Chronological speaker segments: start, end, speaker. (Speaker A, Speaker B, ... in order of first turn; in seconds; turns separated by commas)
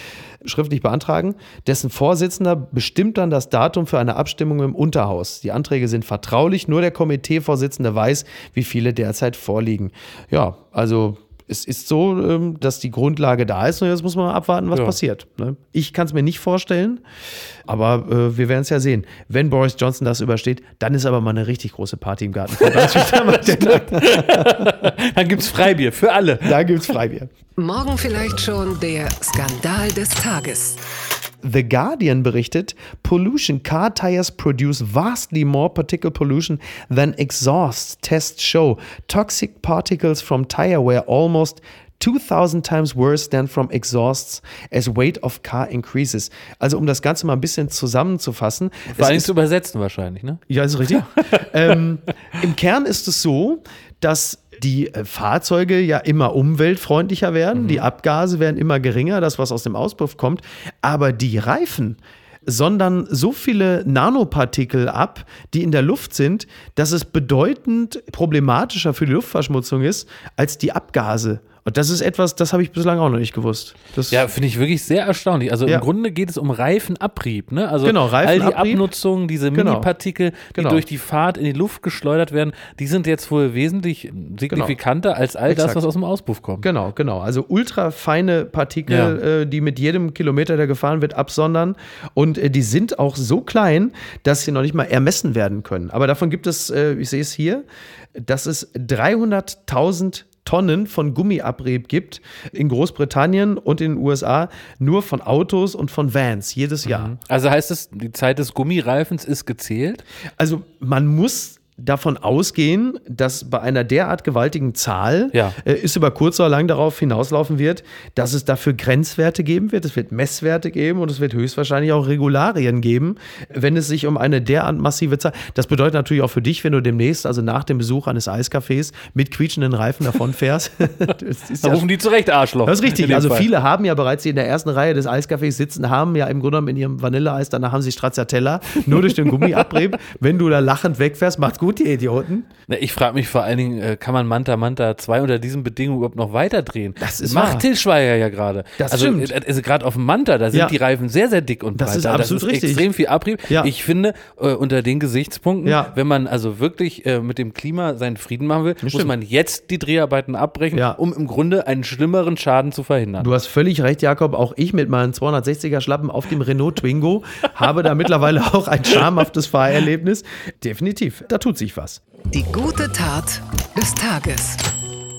Speaker A: 0.4-17.0, Speaker A: 17.7-24.8, Speaker B: 22.6-26.6, Speaker A: 26.4-27.3, Speaker C: 27.6-30.8, Speaker A: 31.4-49.3, Speaker B: 48.9-51.8, Speaker A: 50.5-74.2, Speaker B: 57.5-57.8, Speaker B: 74.1-86.7, Speaker A: 77.8-78.8, Speaker A: 79.5-79.9, Speaker A: 80.5-80.8, Speaker A: 85.5-85.8, Speaker A: 86.6-97.6, Speaker B: 88.9-89.2, Speaker A: 98.1-107.1, Speaker B: 106.8-110.0, Speaker A: 110.4-131.8, Speaker B: 131.6-133.5, Speaker A: 132.6-142.5, Speaker B: 138.9-139.7, Speaker B: 142.7-163.3, Speaker A: 147.0-147.7, Speaker A: 148.8-149.3, Speaker A: 151.8-152.8, Speaker A: 153.5-153.7, Speaker A: 155.6-155.9, Speaker A: 158.8-159.1, Speaker A: 163.2-172.0, Speaker C: 172.3-174.6